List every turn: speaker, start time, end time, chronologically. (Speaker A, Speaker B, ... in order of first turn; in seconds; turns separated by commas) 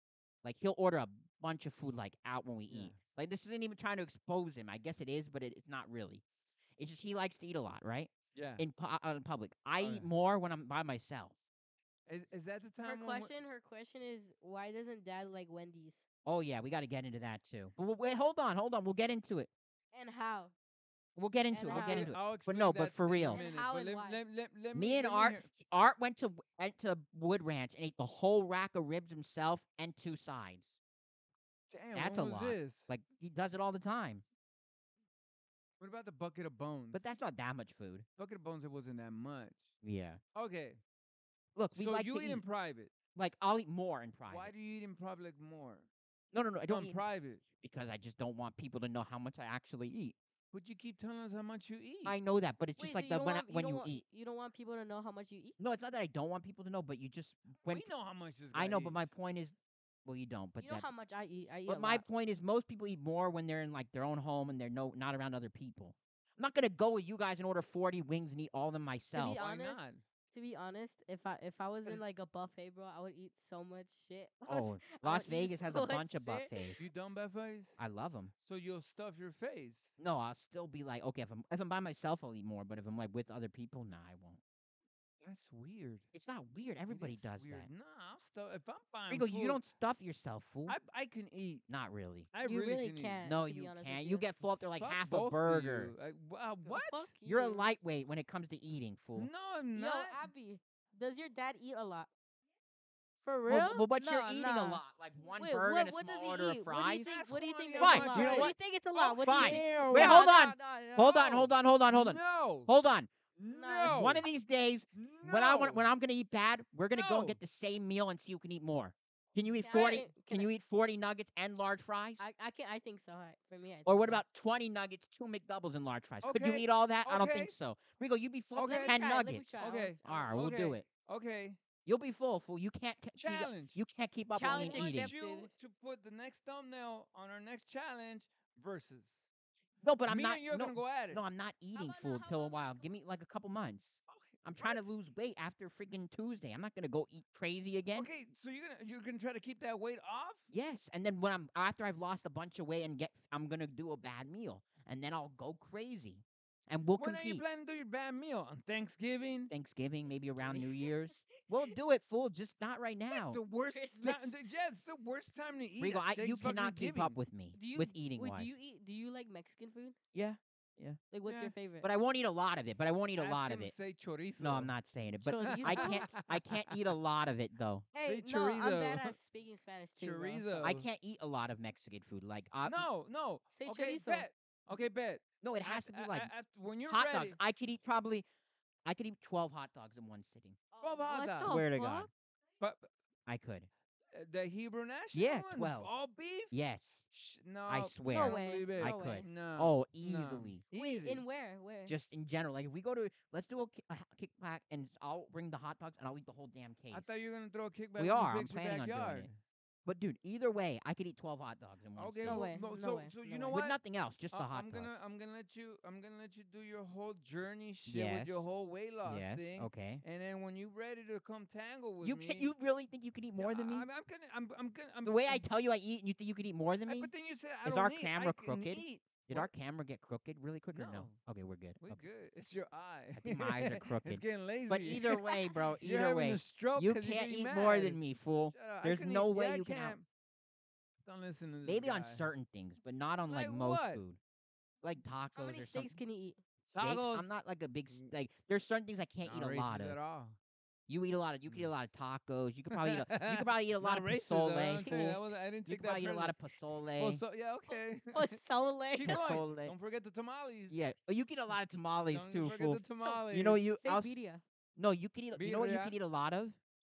Speaker A: 0.4-6.2, Speaker B: 2.7-3.0, Speaker A: 6.8-11.3, Speaker B: 8.3-8.6, Speaker B: 9.8-10.1, Speaker B: 12.1-13.4, Speaker C: 12.8-16.0, Speaker A: 16.2-19.5, Speaker C: 19.9-20.5, Speaker A: 21.2-23.4, Speaker C: 21.5-22.1, Speaker B: 21.7-25.5, Speaker C: 23.3-24.2, Speaker A: 24.7-30.8, Speaker B: 31.7-32.9, Speaker A: 31.9-34.2, Speaker B: 35.8-37.0, Speaker A: 36.9-38.0, Speaker B: 38.2-39.7, Speaker A: 39.8-40.2, Speaker B: 40.4-40.8, Speaker A: 41.5-42.5, Speaker B: 41.7-42.9, Speaker A: 43.1-44.5, Speaker B: 44.3-45.9, Speaker A: 46.3-47.0, Speaker B: 46.7-47.4, Speaker A: 47.6-50.2, Speaker B: 50.5-52.2, Speaker A: 52.0-54.0, Speaker C: 52.8-55.6, Speaker A: 55.6-57.9, Speaker B: 57.7-59.1, Speaker A: 58.5-60.9, Speaker C: 60.6-62.0, Speaker A: 61.7-69.4, Speaker C: 69.1-76.8, Speaker B: 69.3-70.0, Speaker A: 74.5-76.8, Speaker B: 76.8-77.8, Speaker A: 77.8-78.3, Speaker B: 78.4-80.0, Speaker A: 80.0-84.4, Speaker B: 85.2-86.1, Speaker A: 86.1-87.7, Speaker B: 86.9-89.6, Speaker A: 89.1-90.8, Speaker B: 90.7-91.7, Speaker A: 91.7-92.3, Speaker B: 92.3-93.2, Speaker C: 92.4-94.3, Speaker A: 93.2-95.9, Speaker B: 94.5-97.1, Speaker C: 96.6-97.7, Speaker A: 97.2-99.3, Speaker B: 99.2-100.3, Speaker C: 99.7-102.1, Speaker C: 103.2-111.4, Speaker A: 103.5-107.1, Speaker B: 107.0-110.3, Speaker A: 107.8-108.5, Speaker A: 109.1-113.1, Speaker B: 111.2-112.7, Speaker B: 113.4-114.3, Speaker C: 113.5-114.0, Speaker A: 113.8-122.2, Speaker B: 114.9-115.9, Speaker B: 116.9-117.4, Speaker C: 119.6-120.5, Speaker B: 119.7-120.1, Speaker C: 122.2-124.2, Speaker A: 123.9-130.9, Speaker B: 126.2-127.5, Speaker B: 128.5-129.0, Speaker C: 128.6-130.3, Speaker B: 129.6-131.6, Speaker A: 131.8-135.1, Speaker B: 133.2-133.8, Speaker C: 134.3-135.5, Speaker B: 134.4-139.3, Speaker A: 139.8-148.1, Speaker B: 140.1-141.2, Speaker C: 141.7-142.9, Speaker B: 144.1-144.8, Speaker B: 147.9-150.5, Speaker A: 150.5-157.4, Speaker B: 157.0-159.5, Speaker A: 159.5-163.4, Speaker B: 160.4-160.7, Speaker B: 163.1-167.2, Speaker C: 163.7-164.4, Speaker A: 165.8-168.5, Speaker C: 167.5-170.0, Speaker A: 170.1-171.0, Speaker C: 171.1-171.9, Speaker B: 171.2-171.6, Speaker A: 171.8-173.7, Speaker B: 173.2-174.7, Speaker A: 174.4-177.9, Speaker C: 175.2-176.1, Speaker B: 175.4-176.8, Speaker C: 177.9-180.8, Speaker B: 178.1-179.2, Speaker B: 180.0-180.9, Speaker A: 180.6-182.9, Speaker B: 182.6-187.4, Speaker C: 183.5-184.3, Speaker A: 185.4-186.3, Speaker A: 186.9-188.3, Speaker A: 188.8-190.6, Speaker C: 190.7-192.1, Speaker B: 190.8-191.6, Speaker A: 191.4-192.1, Speaker B: 192.6-192.9, Speaker A: 193.3-193.7, Speaker B: 194.1-196.6, Speaker A: 195.1-195.9, Speaker A: 196.5-197.1, Speaker B: 197.1-201.2, Speaker A: 197.7-200.6, Speaker C: 198.1-199.3, Speaker C: 200.7-202.0, Speaker A: 201.9-207.1, Speaker B: 206.9-209.4, Speaker A: 208.0-209.3, Speaker A: 209.8-212.5, Speaker B: 212.0-213.8, Speaker C: 212.2-213.6, Speaker A: 213.5-214.9, Speaker B: 214.3-222.5, Speaker A: 217.9-218.5, Speaker A: 219.0-220.0, Speaker A: 222.0-223.9, Speaker B: 223.4-225.5, Speaker A: 225.0-227.1, Speaker B: 226.9-229.5, Speaker A: 227.7-232.0, Speaker B: 230.7-231.2, Speaker B: 231.8-240.1, Speaker A: 233.2-240.0, Speaker B: 241.1-242.3, Speaker A: 241.7-244.2, Speaker B: 243.3-244.0, Speaker A: 244.8-246.0, Speaker C: 245.3-246.4, Speaker B: 246.7-247.3, Speaker A: 246.8-250.0, Speaker B: 249.2-250.4, Speaker A: 250.9-257.2, Speaker B: 251.5-251.7, Speaker B: 252.7-256.4, Speaker B: 257.0-258.4, Speaker C: 257.7-259.5, Speaker B: 258.9-260.8, Speaker A: 259.1-259.7, Speaker A: 260.7-264.1, Speaker B: 262.1-263.6, Speaker C: 263.0-264.4, Speaker A: 264.8-266.6, Speaker B: 265.4-266.0